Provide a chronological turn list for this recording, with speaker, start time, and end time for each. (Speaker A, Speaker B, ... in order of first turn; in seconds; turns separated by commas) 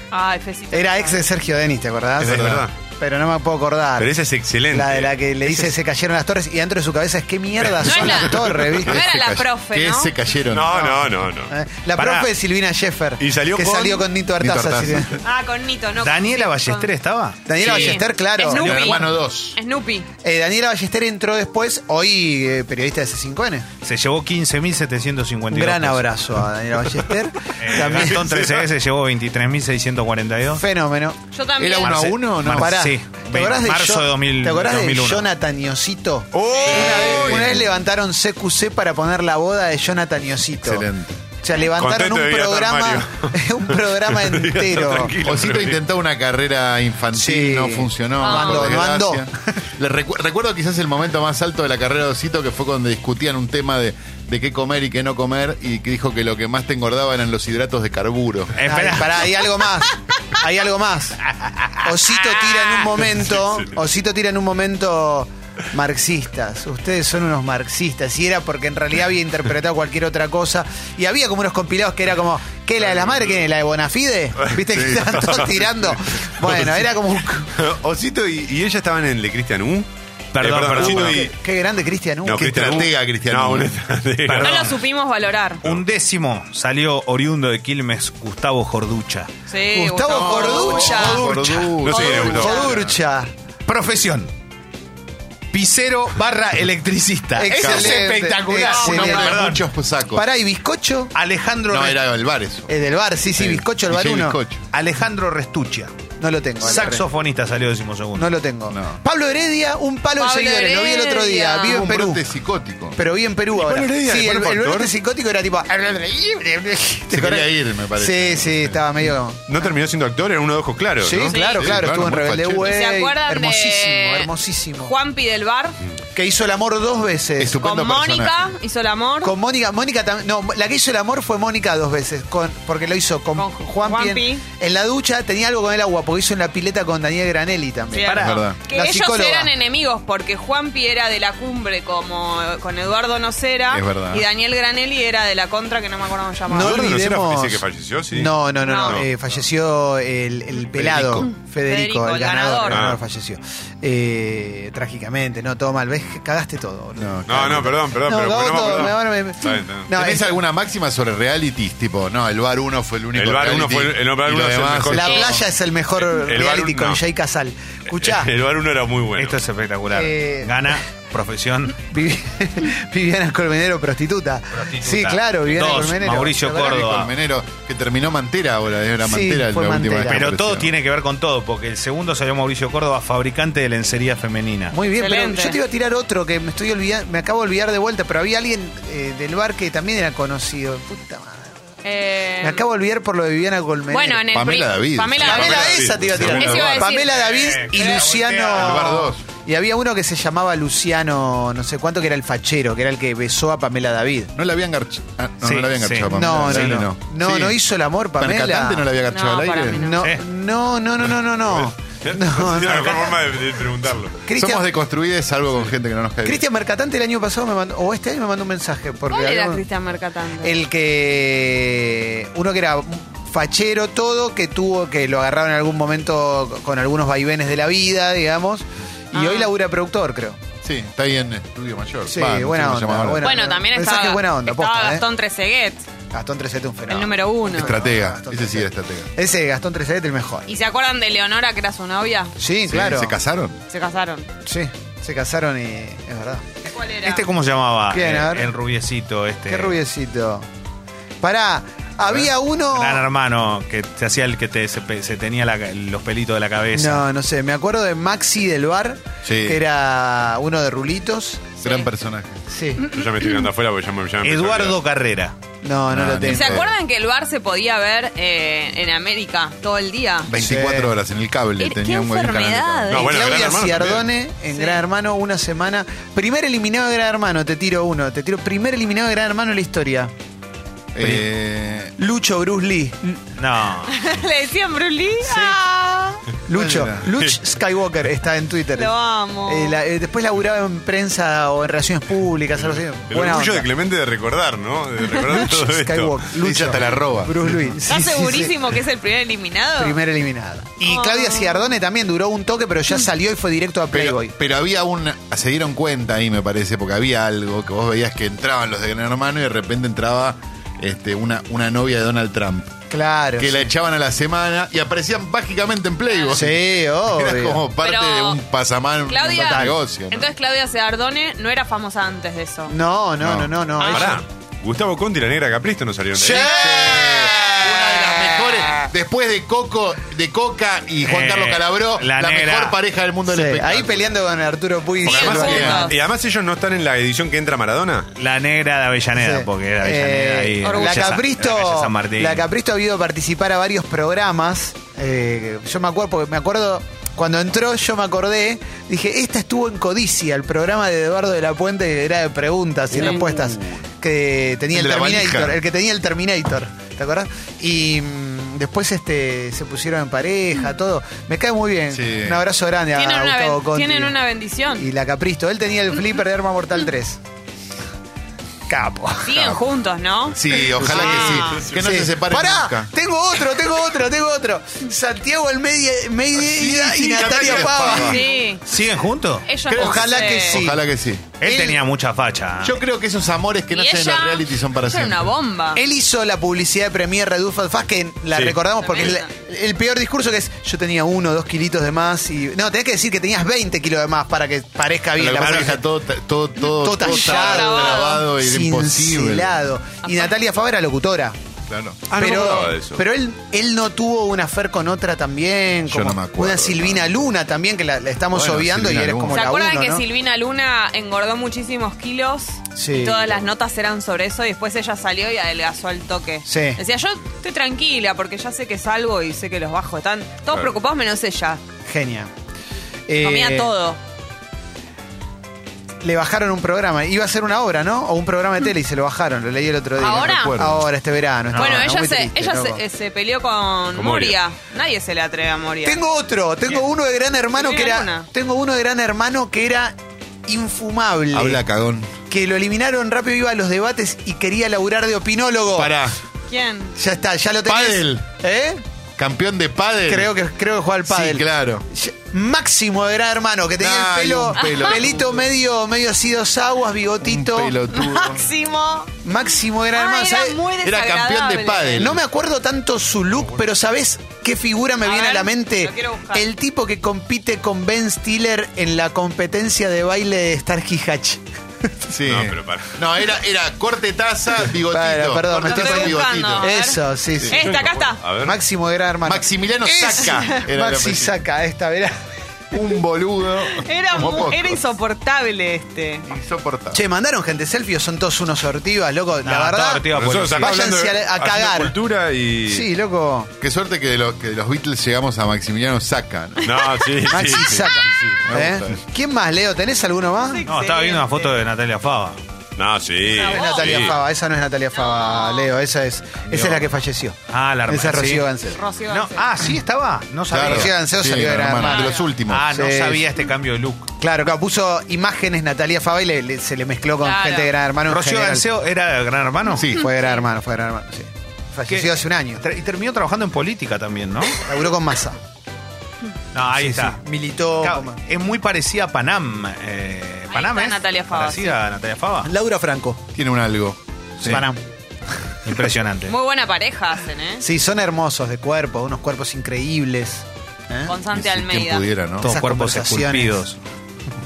Speaker A: 0.1-1.2, Speaker B: 0.7-4.1, Speaker C: 2.2-2.7, Speaker D: 2.2-2.6, Speaker C: 4.0-5.7, Speaker B: 4.7-9.0, Speaker A: 7.8-10.1, Speaker D: 8.8-11.0, Speaker C: 10.5-11.5, Speaker B: 11.5-15.2, Speaker E: 11.9-12.3, Speaker C: 13.2-14.1, Speaker D: 14.4-15.2, Speaker A: 15.2-16.9, Speaker E: 16.0-18.0, Speaker B: 17.5-18.9, Speaker A: 17.5-20.1, Speaker D: 18.5-19.6, Speaker E: 18.6-19.0, Speaker B: 20.2-23.7, Speaker E: 23.8-26.0, Speaker B: 25.5-28.3, Speaker E: 27.6-30.6, Speaker C: 27.8-28.7, Speaker B: 30.5-31.2, Speaker A: 31.3-32.2, Speaker D: 31.6-32.9, Speaker E: 31.9-35.3, Speaker B: 32.4-40.9, Speaker C: 36.3-37.5, Speaker A: 36.5-37.2, Speaker D: 36.9-37.6, Speaker D: 40.6-41.2, Speaker B: 41.4-45.1, Speaker C: 41.6-45.8, Speaker D: 45.2-58.5, Speaker B: 47.1-49.3, Speaker A: 48.2-48.7, Speaker E: 58.5-59.4, Speaker B: 58.6-61.2, Speaker E: 61.3-61.9, Speaker B: 61.8-77.5, Speaker D: 74.7-75.3, Speaker C: 74.8-75.5, Speaker C: 77.5-81.3, Speaker E: 80.3-81.2, Speaker B: 80.7-82.5, Speaker C: 82.2-84.7, Speaker D: 82.3-83.7, Speaker E: 84.2-84.8, Speaker A: 84.4-85.6, Speaker E: 85.6-89.3, Speaker A: 89.5-92.8, Speaker B: 89.7-93.3, Speaker D: 90.1-92.9, Speaker C: 91.8-92.6, Speaker E: 93.7-94.3, Speaker E: 95.5-99.6, Speaker B: 97.3-99.5, Speaker D: 97.5-98.1, Speaker D: 98.7-100.2, Speaker B: 100.1-101.1, Speaker E: 101.1-102.0, Speaker D: 101.7-102.7, Speaker B: 102.7-104.4, Speaker D: 103.3-104.7, Speaker E: 104.7-106.0, Speaker B: 106.2-107.1, Speaker E: 106.6-108.3, Speaker B: 108.1-112.2, Speaker D: 108.7-109.0, Speaker A: 110.2-111.8, Speaker D: 111.6-113.0, Speaker B: 112.9-119.4, Speaker C: 113.5-114.9, Speaker D: 117.1-119.0, Speaker C: 119.5-121.4, Speaker B: 121.0-124.9, Speaker A: 121.3-121.8, Speaker D: 121.6-122.7, Speaker A: 122.6-124.3, Speaker A: 124.8-125.8, Speaker B: 126.1-127.6, Speaker D: 127.4-128.5, Speaker A: 127.6-129.3, Speaker B: 129.2-139.5, Speaker A: 133.3-134.4, Speaker A: 137.9-146.8, Speaker E: 138.1-138.4, Speaker D: 138.2-138.6, Speaker D: 143.7-144.2, Speaker B: 146.5-160.3, Speaker C: 146.5-149.1, Speaker A: 148.6-149.0, Speaker D: 150.7-151.3, Speaker A: 151.6-152.9, Speaker C: 152.7-153.0, Speaker D: 156.9-157.8, Speaker C: 157.3-159.9, Speaker D: 159.9-165.3, Speaker C: 163.1-167.0, Speaker B: 164.9-168.3, Speaker C: 167.9-169.4, Speaker E: 169.2-171.8, Speaker B: 169.9-170.7, Speaker B: 171.9-176.8, Speaker E: 174.6-177.1, Speaker D: 176.5-180.7, Speaker B: 179.0-180.3, Speaker E: 180.1-184.8, Speaker B: 184.7-191.4, Speaker A: 184.9-185.6, Speaker A: 191.8-192.6, Speaker B: 192.4-194.2, Speaker A: 193.9-198.1, Speaker D: 194.3-196.9, Speaker B: 195.2-204.3, Speaker C: 195.2-196.7, Speaker E: 197.1-198.9, Speaker D: 198.5-199.2, Speaker D: 204.3-207.6, Speaker E: 205.4-206.9, Speaker B: 206.1-208.8, Speaker D: 208.2-209.8, Speaker A: 209.1-210.0, Speaker B: 209.7-213.2, Speaker C: 211.5-214.2, Speaker B: 214.2-214.6, Speaker D: 214.3-216.4, Speaker B: 216.2-219.6, Speaker A: 219.1-220.6, Speaker B: 220.4-230.4, Speaker A: 229.1-229.5, Speaker D: 230.6-233.3, Speaker B: 232.1-235.0, Speaker A: 233.2-235.8, Speaker B: 236.1-240.5, Speaker A: 236.9-237.7, Speaker D: 237.5-239.1, Speaker A: 240.5-242.3, Speaker B: 242.4-243.2, Speaker D: 242.6-243.6, Speaker A: 243.7-244.3, Speaker B: 244.4-246.4, Speaker A: 246.7-247.2, Speaker E: 247.0-249.8, Speaker B: 247.9-248.5, Speaker B: 249.5-250.4, Speaker B: 251.2-253.1, Speaker E: 252.7-257.1, Speaker B: 256.7-261.5, Speaker D: 259.2-259.6, Speaker D: 261.6-262.4, Speaker B: 262.5-262.8, Speaker C: 262.8-264.8, Speaker A: 262.9-263.4, Speaker E: 264.2-265.3, Speaker B: 265.6-266.6, Speaker D: 265.9-266.7, Speaker A: 266.3-270.3, Speaker D: 270.2-273.0, Speaker B: 270.3-270.9, Speaker A: 271.6-273.2, Speaker C: 272.9-274.1, Speaker B: 273.0-280.1, Speaker A: 274.5-274.8, Speaker D: 280.9-281.9, Speaker B: 282.0-283.2, Speaker E: 283.4-283.9, Speaker A: 283.9-286.2, Speaker B: 285.2-285.6, Speaker B: 286.4-288.9, Speaker D: 286.5-287.1, Speaker A: 288.7-289.8, Speaker B: 289.4-293.7, Speaker C: 293.1-296.2, Speaker B: 295.2-298.5, Speaker D: 296.4-297.7, Speaker A: 297.9-300.0, Speaker B: 299.8-304.3, Speaker A: 300.8-301.7, Speaker D: 303.9-312.7, Speaker B: 312.9-313.7, Speaker D: 313.4-320.3, Speaker B: 316.3-317.6, Speaker A: 317.8-318.4, Speaker A: 319.1-322.7, Speaker B: 322.7-324.2, Speaker D: 323.2-323.5, Speaker A: 323.8-324.2, Speaker C: 323.8-326.5, Speaker D: 326.2-334.1, Speaker B: 326.2-328.6, Speaker E: 331.0-332.8, Speaker B: 333.2-335.9, Speaker A: 335.0-335.9, Speaker C: 335.0-338.1, Speaker D: 335.3-335.8, Speaker E: 338.1-342.4, Speaker B: 339.1-364.1, Speaker A: 340.6-341.2, Speaker A: 352.9-353.5, Speaker D: 354.7-355.6, Speaker D: 361.9-362.4, Speaker A: 362.9-364.9, Speaker B: 364.7-367.2, Speaker B: 368.7-369.3, Speaker A: 369.2-371.6, Speaker D: 370.3-372.9, Speaker B: 370.8-378.4, Speaker C: 371.4-371.7, Speaker D: 376.4-378.2, Speaker C: 377.1-378.1, Speaker A: 377.9-378.6, Speaker E: 378.6-379.5, Speaker A: 379.4-380.6, Speaker D: 379.7-381.3, Speaker B: 379.7-380.9, Speaker E: 381.4-382.8, Speaker B: 381.4-381.8, Speaker D: 382.6-385.3, Speaker A: 383.7-385.8, Speaker B: 385.7-395.8, Speaker C: 388.3-388.6, Speaker A: 388.8-389.3, Speaker D: 395.1-399.6, Speaker B: 396.8-401.4, Speaker A: 397.0-398.2, Speaker A: 400.0-400.3, Speaker D: 401.7-402.0, Speaker C: 402.1-403.0, Speaker B: 402.1-410.0, Speaker D: 405.9-407.3, Speaker D: 408.3-409.4, Speaker A: 409.3-421.6, Speaker B: 412.8-413.4, Speaker B: 416.5-416.8, Speaker B: 421.9-422.3, Speaker B: 423.1-423.7, Speaker A: 423.2-424.0, Speaker B: 426.0-432.8, Speaker A: 430.0-430.6, Speaker D: 430.0-430.9, Speaker A: 431.5-436.0, Speaker C: 433.9-434.4, Speaker B: 435.8-439.9, Speaker A: 437.6-438.3, Speaker B: 440.4-441.6, Speaker D: 441.3-442.1, Speaker B: 442.3-445.9, Speaker D: 445.7-446.2, Speaker A: 446.5-446.9, Speaker B: 446.9-448.8, Speaker D: 447.6-448.2, Speaker D: 449.2-450.3, Speaker B: 450.1-457.8, Speaker D: 451.1-451.9, Speaker D: 453.8-455.5, Speaker A: 454.6-455.0, Speaker D: 457.2-458.4, Speaker A: 457.9-459.1, Speaker B: 459.2-460.6, Speaker A: 459.9-462.1, Speaker D: 460.8-462.2, Speaker B: 462.0-471.4, Speaker A: 465.0-466.4, Speaker D: 472.1-476.7, Speaker C: 472.2-472.9, Speaker B: 474.8-477.7, Speaker A: 475.5-478.2, Speaker C: 477.5-478.6, Speaker B: 478.4-482.2, Speaker D: 479.2-481.4, Speaker D: 482.7-484.8, Speaker A: 483.7-486.3, Speaker D: 486.2-487.0, Speaker B: 486.9-491.9, Speaker E: 489.4-490.8, Speaker C: 490.1-492.9, Speaker B: 492.7-493.5, Speaker D: 493.6-496.7, Speaker C: 496.6-498.4, Speaker B: 497.3-500.6, Speaker D: 498.4-499.0, Speaker A: 500.5-501.5, Speaker E: 500.6-502.4, Speaker C: 502.8-504.1, Speaker A: 503.3-504.2, Speaker B: 503.4-508.8, Speaker A: 504.9-505.7, Speaker E: 506.5-506.9, Speaker E: 507.5-508.5, Speaker A: 508.7-509.5, Speaker E: 509.1-510.9, Speaker D: 510.5-512.7, Speaker B: 510.5-513.3, Speaker A: 511.8-512.3, Speaker E: 512.5-514.1, Speaker B: 514.2-518.6, Speaker A: 517.2-517.7, Speaker E: 518.1-519.9, Speaker D: 519.7-520.1, Speaker B: 519.9-522.6, Speaker E: 521.9-524.6, Speaker B: 524.6-525.4, Speaker E: 526.5-527.2, Speaker B: 526.7-528.2, Speaker E: 527.8-532.5, Speaker A: 530.5-531.8, Speaker B: 532.4-533.2, Speaker D: 533.3-534.6, Speaker B: 534.4-534.8, Speaker E: 535.6-536.3, Speaker A: 536.2-537.6, Speaker B: 537.6-541.1, Speaker A: 541.0-542.1, Speaker D: 541.3-542.5, Speaker E: 542.4-543.8, Speaker B: 542.4-543.6